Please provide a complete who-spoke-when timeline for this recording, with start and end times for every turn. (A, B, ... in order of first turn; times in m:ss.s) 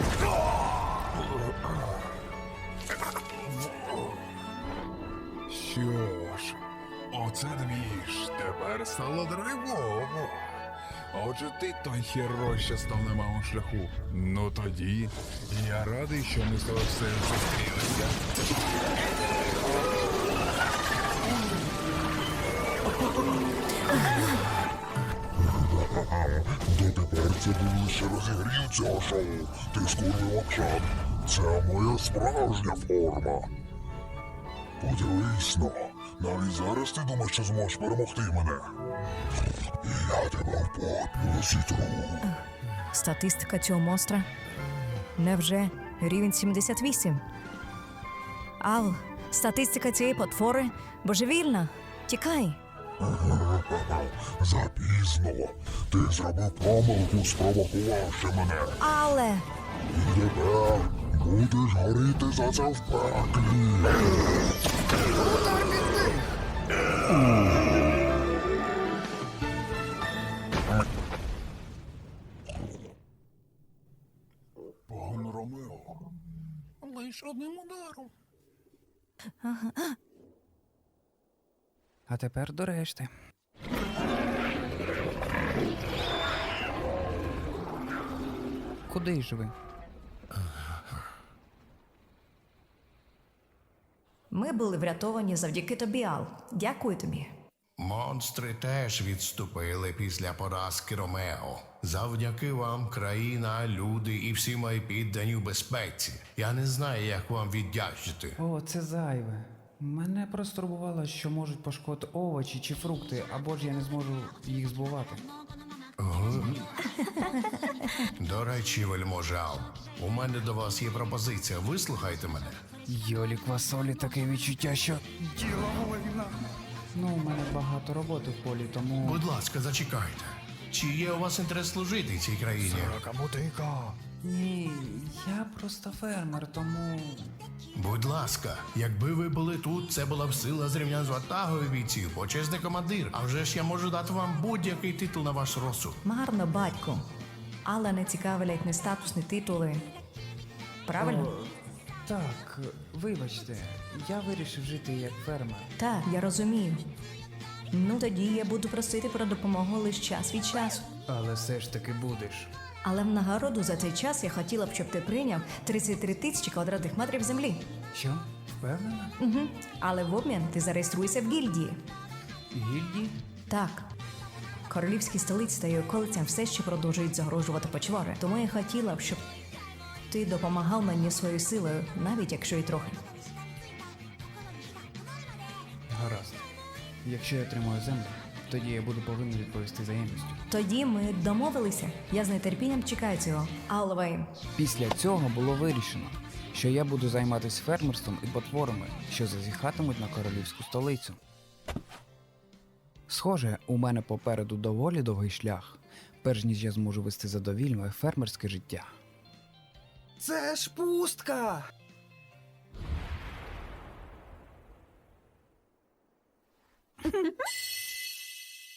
0:05.5-0:06.6 A
0:07.1-0:10.5 A
0:11.1-0:18.2 A
0:25.4-0:33.5 B
0:34.8-0:38.6 B
0:39.8-0:42.2 B
0:42.2-0:44.3 C
0:45.2-0:47.2 C
0:48.6-0:52.6 C
0:53.0-0:58.8 B
0:58.8-0:59.5 C
0:59.9-1:04.1 B
1:05.3-1:06.1 D
1:14.9-1:16.0 A
1:16.8-1:18.1 A
1:19.4-1:20.0 C
1:22.1-1:23.1 D
1:28.9-1:29.5 D
1:30.4-1:30.7 E
1:34.3-1:37.3 C
1:37.8-1:48.4 E
1:48.4-1:55.2 D
1:56.0-1:56.6 E
1:57.0-1:57.4 C
1:58.2-2:02.6 E
2:02.8-2:09.2 D
2:09.0-2:13.0 E
2:13.0-2:17.4 D
2:17.7-2:26.0 E
2:26.0-2:27.0 C
2:27.6-2:29.9 C
2:30.9-2:31.3 C
2:31.0-2:31.4 D
2:32.0-2:35.7 D
2:35.8-2:36.8 C
2:37.7-2:40.8 C
2:41.1-2:42.5 D
2:42.8-2:47.7 C
2:47.9-2:49.2 D
2:49.2-2:51.8 C
2:52.5-2:53.2 D
2:53.5-2:53.8 C
2:54.7-2:59.2 C
3:00.1-3:03.0 C
3:05.9-3:06.4 D
3:07.0-3:10.4 D
3:10.5-3:14.3 C
3:14.5-3:21.2 D
3:23.1-3:28.9 D
3:30.2-3:31.6 D